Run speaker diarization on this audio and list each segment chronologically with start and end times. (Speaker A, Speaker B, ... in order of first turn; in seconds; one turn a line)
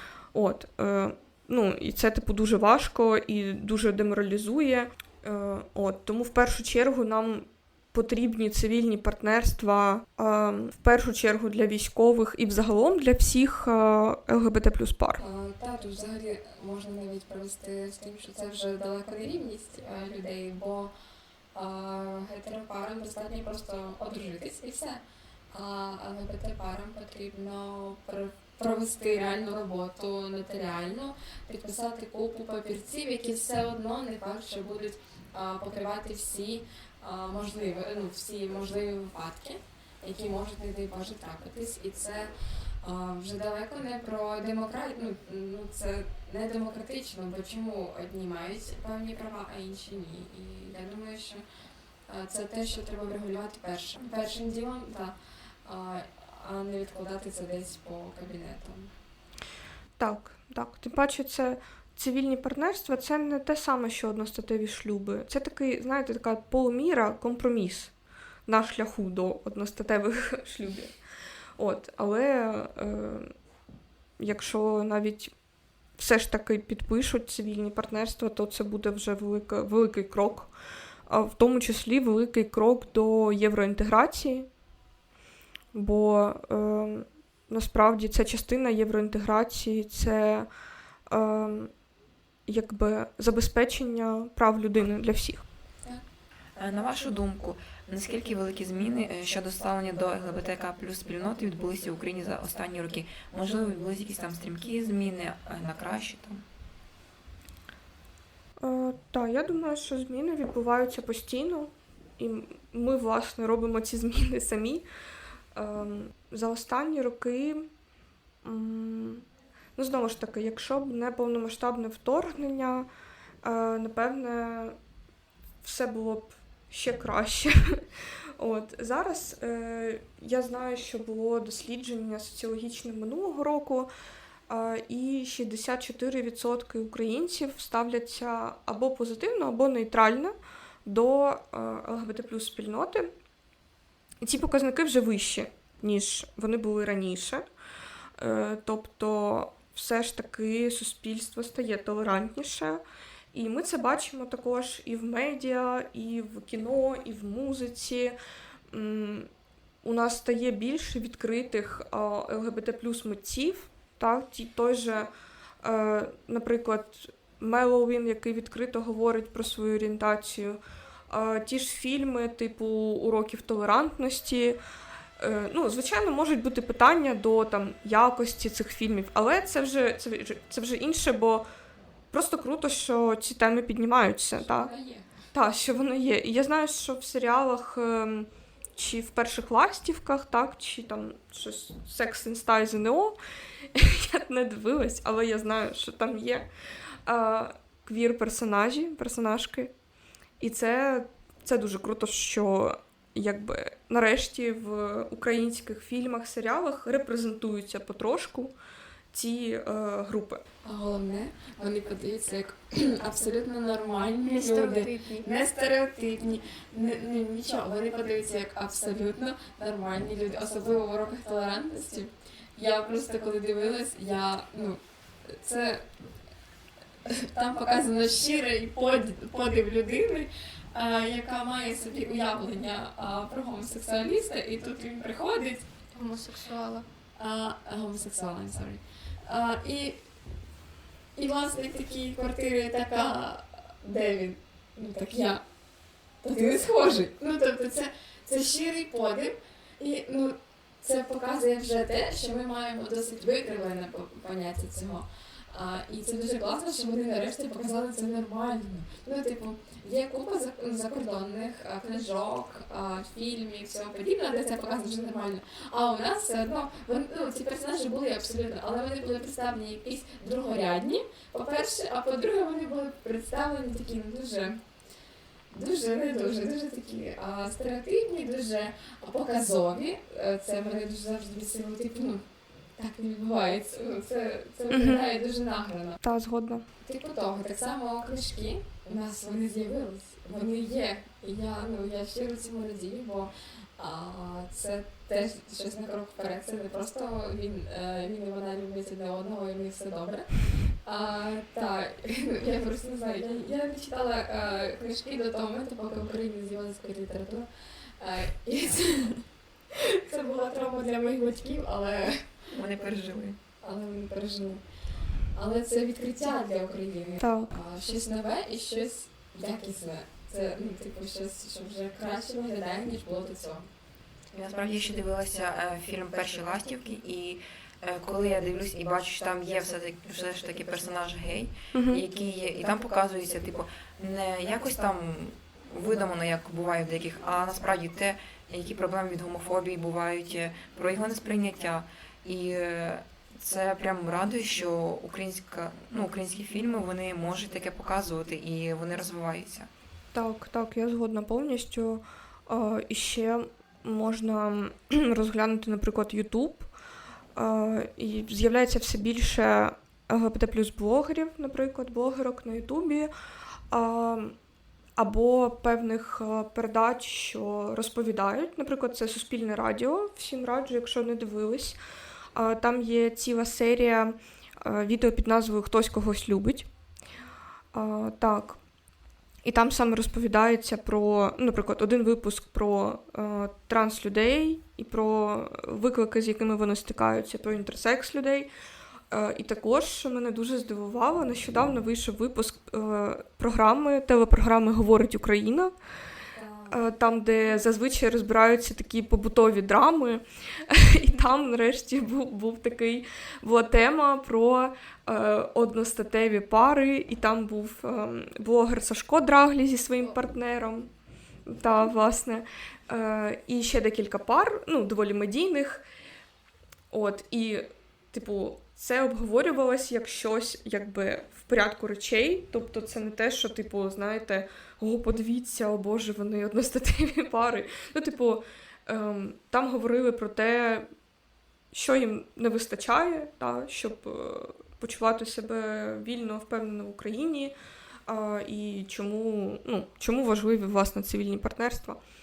Speaker A: 0.3-15.2
Speaker B: 15.2-20.9
Speaker B: 21.5-42.3
Speaker B: 42.8-51.4
Speaker B: 52.1-58.9
Speaker A: 60.0-67.9
Speaker A: 68.5-70.9
Speaker A: 71.6-73.3
Speaker A: 74.2-75.3
Speaker A: 76.0-80.5
Speaker A: 81.1-84.5
Speaker A: 85.7-90.5
Speaker A: 91.1-91.7
Speaker A: 92.5-95.4
Speaker C: 96.6-106.4
Speaker A: 108.6-114.8
Speaker A: 115.5-117.7
Speaker A: 118.4-119.2
Speaker A: 119.8-122.9
Speaker A: 123.4-124.8
Speaker A: 125.6-127.8
Speaker A: 128.4-133.9
Speaker A: 134.5-143.1
Speaker A: 144.2-147.4
Speaker A: 148.2-152.8
Speaker A: 153.3-158.2
Speaker A: 158.7-159.3
Speaker A: 159.8-165.1
Speaker A: 165.6-174.6
Speaker A: 175.2-181.5
Speaker A: 182.1-184.7
Speaker B: 184.4-185.1
Speaker A: 185.3-193.2
Speaker A: 193.7-196.5
Speaker A: 197.1-199.7
Speaker A: 200.4-208.5
Speaker A: 209.1-210.4
Speaker B: 210.6-225.8
Speaker D: 214.2-215.2
Speaker B: 227.1-235.6
Speaker D: 235.9-236.8
Speaker B: 237.2-240.0
Speaker B: 241.2-245.4
Speaker B: 246.2-274.6
Speaker B: 275.5-282.2
Speaker B: 282.8-286.0
Speaker A: 284.7-285.1
Speaker A: 286.0-286.6
Speaker B: 286.8-300.3
Speaker B: 300.8-307.4
Speaker B: 308.0-312.2
Speaker C: 312.5-313.4
Speaker B: 313.6-314.6
Speaker B: 315.3-323.7
Speaker A: 317.2-317.5
Speaker C: 324.3-349.7
Speaker A: 331.7-332.0
Speaker A: 350.1-356.7
Speaker A: 357.3-363.1
Speaker A: 363.7-364.4
Speaker A: 365.0-371.8
Speaker A: 372.3-376.7
Speaker A: 377.7-378.6
Speaker A: 379.4-388.5
Speaker A: 389.1-395.7
Speaker B: 396.3-397.5
Speaker A: 396.7-410.9
Speaker A: 411.5-415.8
Speaker A: 416.9-430.9
Speaker A: 431.7-437.5
Speaker A: 438.1-442.0